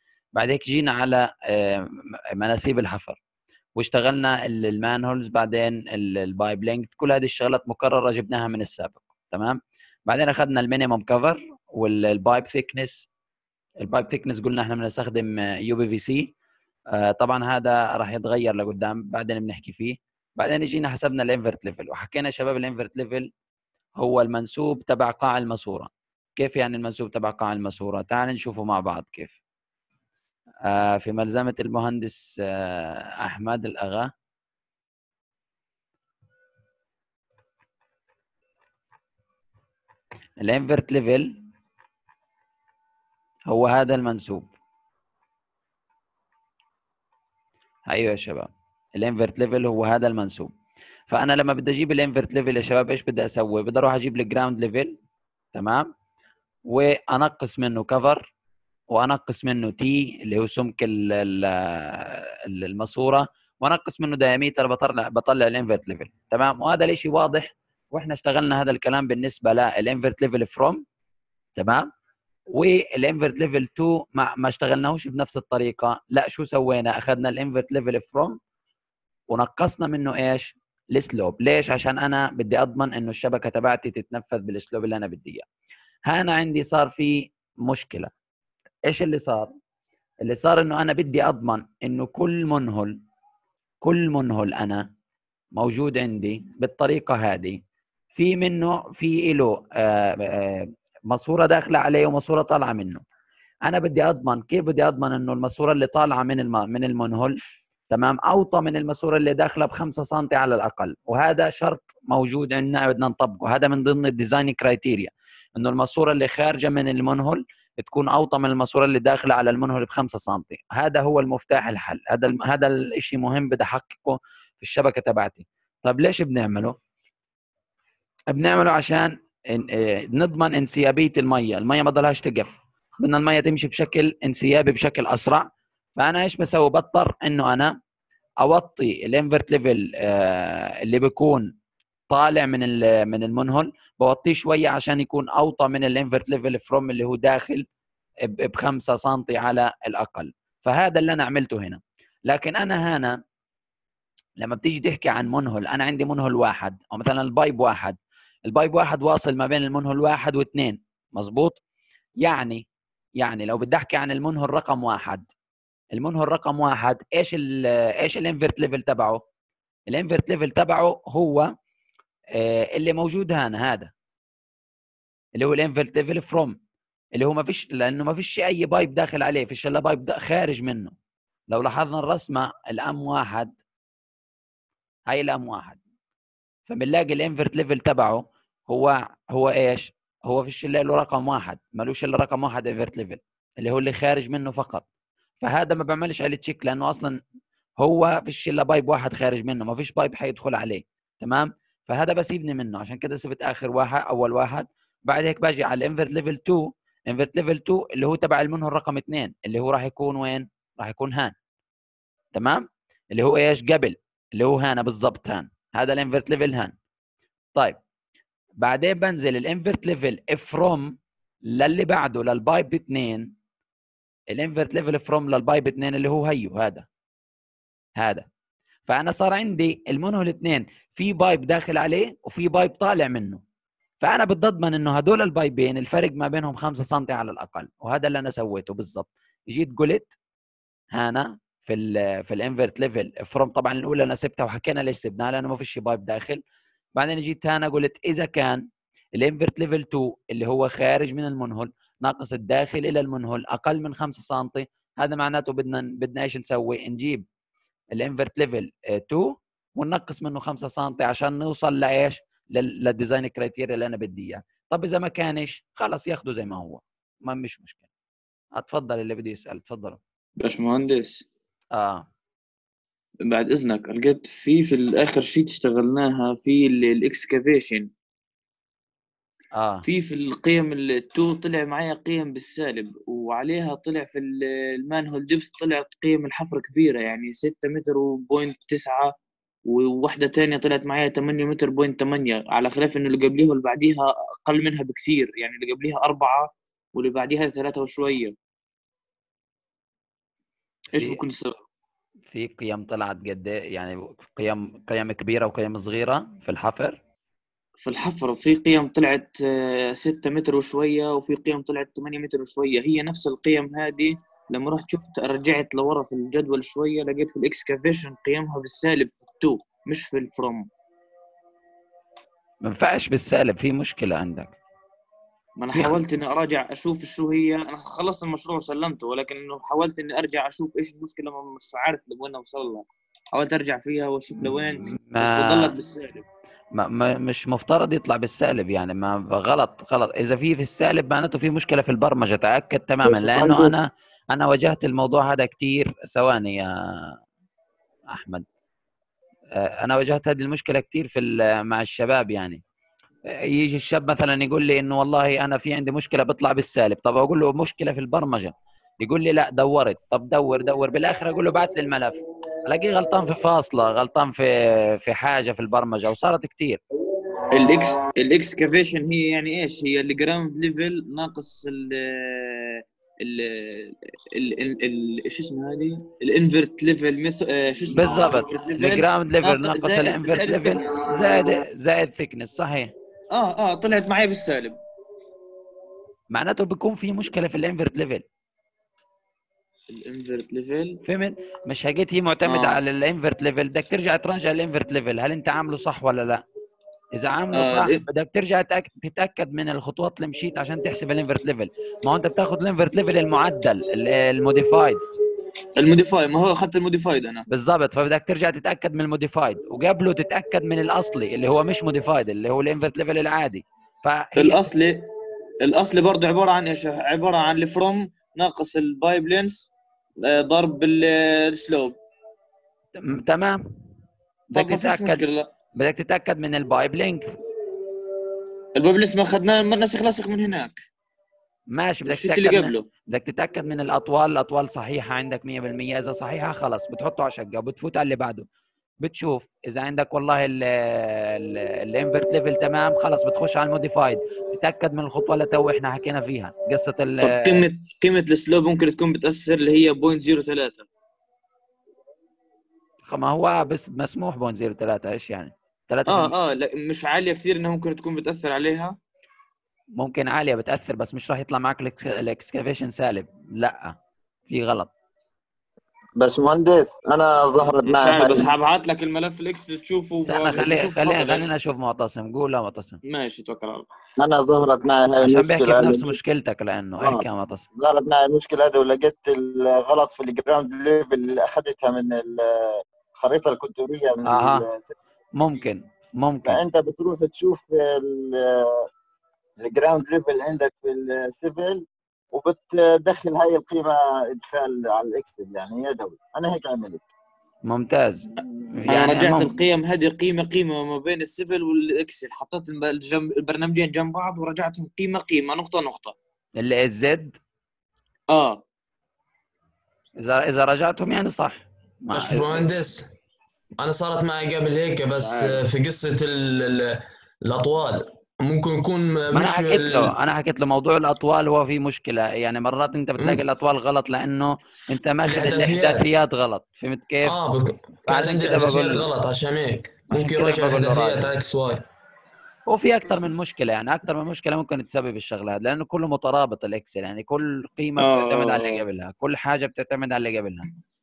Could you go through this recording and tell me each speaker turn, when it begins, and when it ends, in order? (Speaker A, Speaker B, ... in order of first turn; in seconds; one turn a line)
Speaker A: 0.4-3.2
Speaker A: 3.8-13.1
Speaker A: 13.8-16.3
Speaker A: 16.9-23.3
Speaker A: 24.0-29.4
Speaker A: 30.7-34.1
Speaker A: 40.4-41.3
Speaker A: 43.5-44.5
Speaker A: 47.9-50.5
Speaker A: 51.1-55.0
Speaker A: 55.5-55.9
Speaker A: 56.7-58.3
Speaker A: 58.9-70.8
Speaker A: 71.6-71.9
Speaker A: 72.5-78.4
Speaker A: 79.3-85.5
Speaker A: 86.1-88.1
Speaker A: 88.9-89.5
Speaker A: 90.2-93.0
Speaker A: 93.8-94.9
Speaker A: 95.6-97.6
Speaker A: 98.2-103.0
Speaker A: 103.7-107.4
Speaker A: 107.9-126.8
Speaker A: 128.3-135.4
Speaker A: 136.0-137.8
Speaker A: 138.4-141.5
Speaker A: 142.1-147.6
Speaker A: 148.3-153.2
Speaker A: 154.4-161.6
Speaker A: 162.2-162.6
Speaker A: 163.2-165.3
Speaker A: 165.9-169.2
Speaker A: 169.9-171.5
Speaker A: 172.4-173.9
Speaker A: 175.4-176.6
Speaker A: 177.2-180.9
Speaker A: 181.5-183.5
Speaker A: 185.1-185.8
Speaker A: 186.7-194.8
Speaker A: 195.4-197.2
Speaker A: 197.8-211.3
Speaker A: 212.3-216.7
Speaker A: 218.6-221.0
Speaker A: 221.5-223.3
Speaker A: 224.3-226.9
Speaker A: 228.0-228.2
Speaker A: 228.9-233.4
Speaker A: 234.0-240.1
Speaker A: 240.9-246.4
Speaker A: 247.0-248.6
Speaker A: 249.2-257.2
Speaker A: 257.9-267.8
Speaker A: 268.6-270.0
Speaker B: 270.4-271.2
Speaker A: 271.8-272.1
Speaker B: 273.3-277.9
Speaker A: 279.6-279.8
Speaker B: 279.9-289.1
Speaker B: 289.7-298.3
Speaker B: 300.9-301.6
Speaker A: 300.9-301.2
Speaker A: 302.3-307.0
Speaker B: 307.8-320.7
Speaker A: 322.6-324.6
Speaker B: 325.6-336.3
Speaker A: 334.4-335.7
Speaker A: 336.8-347.1
Speaker C: 343.0-343.7
Speaker A: 348.1-348.4
Speaker A: 349.6-352.6
Speaker A: 353.5-366.8
Speaker B: 367.5-381.6
Speaker A: 377.9-382.9
Speaker B: 383.3-384.8
Speaker A: 386.3-388.2
Speaker B: 389.9-391.0
Speaker A: 391.0-396.4
Speaker B: 392.5-392.8
Speaker A: 397.1-405.0
Speaker B: 397.5-398.0
Speaker B: 405.8-407.5
Speaker A: 407.5-414.6
Speaker B: 414.4-415.1
Speaker B: 415.6-419.7
Speaker B: 420.2-422.0
Speaker A: 423.0-423.6
Speaker A: 424.5-425.2
Speaker B: 424.6-425.5
Speaker A: 425.8-427.2
Speaker B: 428.8-430.8
Speaker A: 431.7-438.5
Speaker B: 432.1-432.9
Speaker A: 439.0-447.7
Speaker B: 447.2-450.9
Speaker A: 453.1-456.3
Speaker B: 456.1-459.0
Speaker A: 460.0-464.0
Speaker A: 464.5-464.9
Speaker C: 466.2-468.5
Speaker B: 467.6-471.5
Speaker A: 470.2-473.0
Speaker B: 473.1-473.9
Speaker C: 474.2-476.2
Speaker A: 475.2-477.7
Speaker C: 477.0-484.9
Speaker A: 484.3-484.7
Speaker A: 485.4-486.6
Speaker C: 486.4-488.8
Speaker C: 489.6-497.1
Speaker A: 497.7-499.6
Speaker B: 498.9-506.1
Speaker A: 506.6-507.4
Speaker B: 508.3-508.6
Speaker A: 510.2-512.7
Speaker D: 512.1-513.1
Speaker D: 513.8-520.1
Speaker A: 515.1-515.6
Speaker A: 519.3-527.4
Speaker D: 525.2-526.1
Speaker D: 527.2-531.9
Speaker A: 528.1-529.1
Speaker A: 530.1-531.3
Speaker A: 532.7-540.7
Speaker B: 538.0-538.9